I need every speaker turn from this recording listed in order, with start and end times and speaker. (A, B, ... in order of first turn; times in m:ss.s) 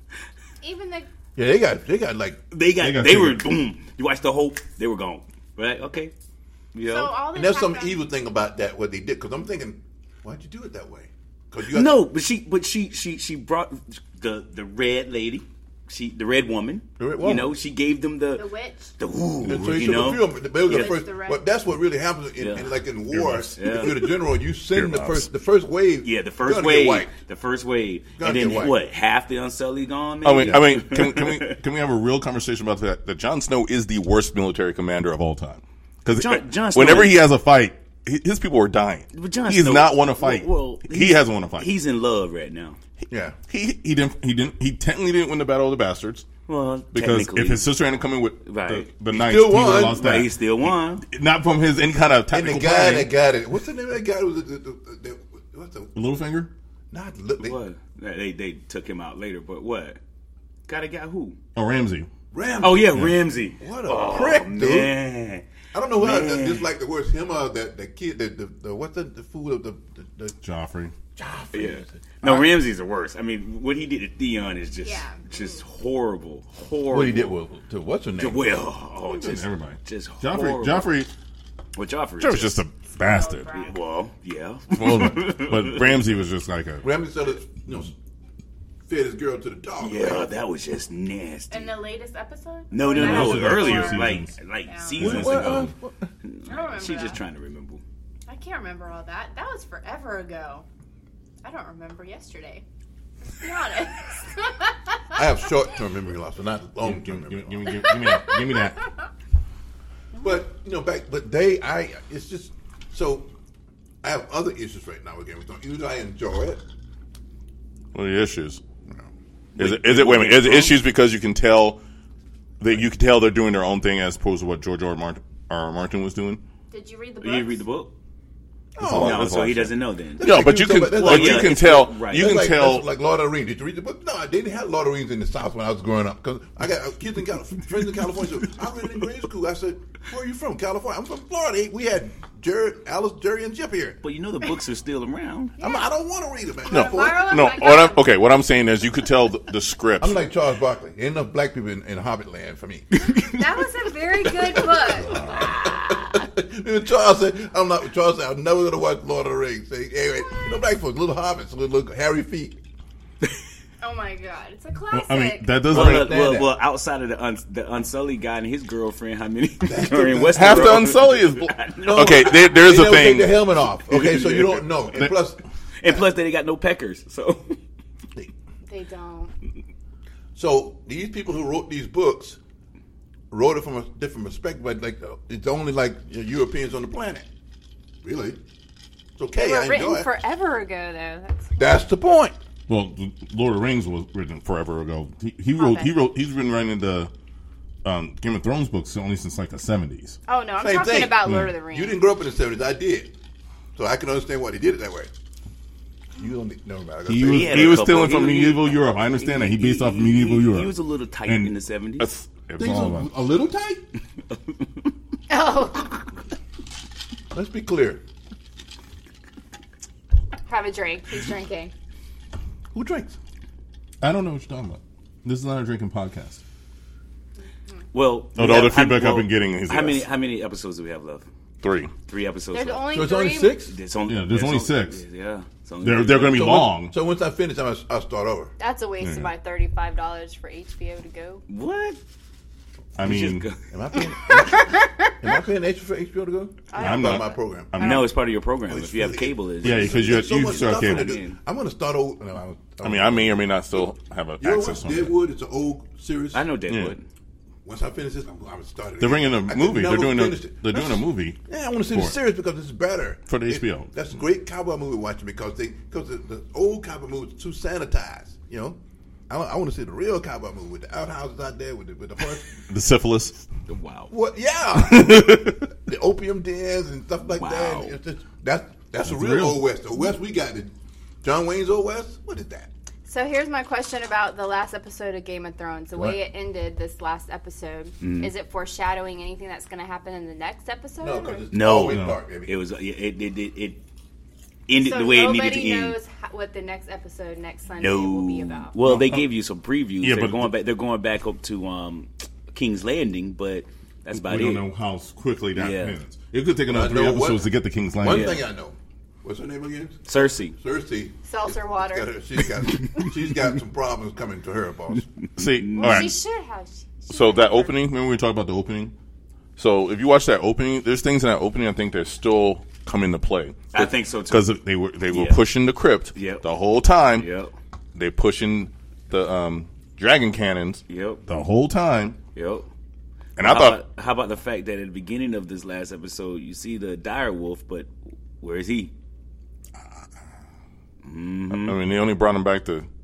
0:00.6-0:01.1 A
0:01.3-0:02.4 B
0:02.5-0:06.1 C
0:02.8-0:03.5 D
0:06.7-0:07.2 C
0:06.8-0:08.0 A
0:07.3-0:12.0 B
0:11.6-0:21.0 C
0:17.0-0:17.5 B
0:18.4-0:18.9 A
0:19.4-0:20.2 D
0:19.4-0:27.1 B
0:20.6-0:21.5 A
0:22.4-0:22.7 C
0:23.1-0:24.2 D
0:23.6-0:24.0 C
0:24.7-0:25.3 D
0:26.0-0:31.6 C
0:28.2-0:28.8 B
0:30.2-0:41.7 D
0:36.1-0:37.2 C
0:39.1-0:42.8 C
0:43.1-0:43.4 B
0:43.3-0:46.2 D
0:46.5-0:47.7 C
0:46.9-0:53.1 D
0:48.4-0:48.9 C
0:49.1-0:50.1 B
0:49.7-0:51.0 C
0:52.3-0:56.0 B
0:55.9-0:56.5 D
0:56.9-0:57.6 B
0:57.4-1:00.0 C
1:00.7-1:01.4 C
1:01.5-1:02.1 D
1:02.3-1:03.0 B
1:02.6-1:06.7 C
1:02.9-1:03.2 D
1:03.6-1:04.9 B
1:05.7-1:10.4 B
1:10.4-1:10.9 D
1:11.2-1:12.4 B
1:11.5-1:17.4 C
1:14.8-1:15.6 A
1:16.9-1:18.6 B
1:18.2-1:20.9 C
1:19.1-1:21.1 D
1:21.8-1:22.6 C
1:22.2-1:23.5 D
1:23.0-1:23.8 A
1:23.5-1:26.0 C
1:24.7-1:26.8 D
1:26.8-1:27.9 B
1:28.9-1:30.3 B
1:29.8-1:31.8 C
1:31.5-1:35.1 A
1:32.7-1:35.7 C
1:32.9-1:34.4 D
1:35.0-1:35.7 D
1:35.0-1:35.9 B
1:36.2-1:37.8 C
1:36.5-1:37.2 A
1:38.3-1:40.6 A
1:41.4-1:42.6 A
1:43.3-1:45.2 A
1:45.1-1:47.9 B
1:46.8-1:48.9 D
1:47.7-1:48.9 A
1:50.2-1:53.3 B
1:54.0-1:56.6 B
1:57.9-1:58.6 D
1:59.6-2:00.8 C
1:59.6-2:01.8 D
2:02.6-2:06.4 D
2:06.7-2:07.6 A
2:07.2-2:07.9 C
2:08.7-2:09.5 B
2:08.8-2:12.8 D
2:08.9-2:10.4 C
2:10.2-2:24.0 B
2:10.9-2:12.3 C
2:24.0-2:25.6 C
2:25.6-2:25.9 A
2:25.6-2:27.5 B
2:26.6-2:28.1 A
2:26.7-2:30.2 D
2:30.0-2:33.0 B
2:33.0-2:33.4 C
2:33.2-2:36.0 A
2:34.3-2:42.6 B
2:43.8-2:45.6 A
2:44.9-2:46.2 D
2:45.7-2:46.5 B
2:45.7-2:52.4 C
2:49.6-2:51.0 B
2:50.3-2:53.4 D
2:51.8-2:56.0 B
2:53.8-2:54.9 C
2:55.8-2:57.6 C
2:58.6-2:59.3 A
3:00.3-3:02.4 B
3:03.3-3:07.2 B
3:08.0-3:08.4 B
3:09.2-3:10.1 B
3:09.3-3:11.7 A
3:11.6-3:12.4 B
3:12.7-3:17.1 D
3:15.6-3:15.9 A
3:17.8-3:20.2 D
3:20.3-3:22.0 A
3:20.6-3:23.1 B
3:21.2-3:21.5 D
3:23.7-3:25.1 B
3:26.2-3:28.3 B
3:27.0-3:33.1 D
3:27.2-3:32.1 C
3:32.6-3:33.8 B
3:34.5-3:34.8 C
3:35.3-3:36.1 A
3:37.3-3:38.0 B
3:40.5-3:41.7 A
3:42.7-3:43.2 B
3:44.0-3:46.4 D
3:47.9-3:51.3 C
3:48.3-3:50.1 D
3:51.6-3:51.9 D
3:52.1-3:53.0 C
3:52.5-3:53.6 A
3:52.9-3:53.7 B
3:53.6-3:56.6 C
3:54.1-3:55.0 D
3:55.8-3:56.9 D
3:56.3-3:58.5 B
3:58.6-4:01.4 A
3:59.0-3:59.3 D
4:01.5-4:02.0 C
4:03.0-4:03.5 D
4:03.0-4:03.6 C
4:03.7-4:07.8 B
4:04.3-4:05.1 A
4:06.7-4:08.1 A
4:06.7-4:08.2 D
4:07.8-4:11.4 C
4:08.7-4:16.5 B
4:09.6-4:11.2 D
4:12.8-4:15.1 D
4:16.3-4:17.0 C
4:16.7-4:17.0 D
4:17.6-4:32.6 B
4:19.0-4:22.1 D
4:23.3-4:23.9 D
4:32.7-4:33.4 D
4:33.7-4:34.1 C
4:34.1-4:42.7 B
4:34.8-4:35.6 D
4:37.3-4:38.0 C
4:39.0-4:39.6 D
4:43.0-4:51.4 A
4:48.0-4:48.3 C
4:51.0-4:52.6 B
4:51.5-4:53.8 C
4:51.9-4:52.2 D
4:54.7-4:56.0 C
4:54.7-4:58.7 A
4:57.8-5:04.6 C
4:58.8-4:59.3 D
5:00.0-5:00.5 D
5:04.1-5:08.4 D
5:05.5-5:06.0 C
5:06.7-5:15.1 B
5:08.0-5:08.4 C
5:10.0-5:10.6 C
5:11.2-5:12.1 A
5:15.4-5:16.2 D
5:15.4-5:16.1 C
5:15.7-5:17.8 A
5:17.1-5:18.9 D
5:19.6-5:27.3 D
5:23.7-5:24.5 C
5:25.1-5:25.4 C
5:26.1-5:26.4 C
5:27.2-5:27.5 C
5:27.9-5:32.2 D
5:30.9-5:31.3 C
5:32.3-5:32.7 C
5:33.4-5:33.8 D
5:33.4-5:38.9 C
5:41.0-5:41.8 C
5:41.5-5:42.9 D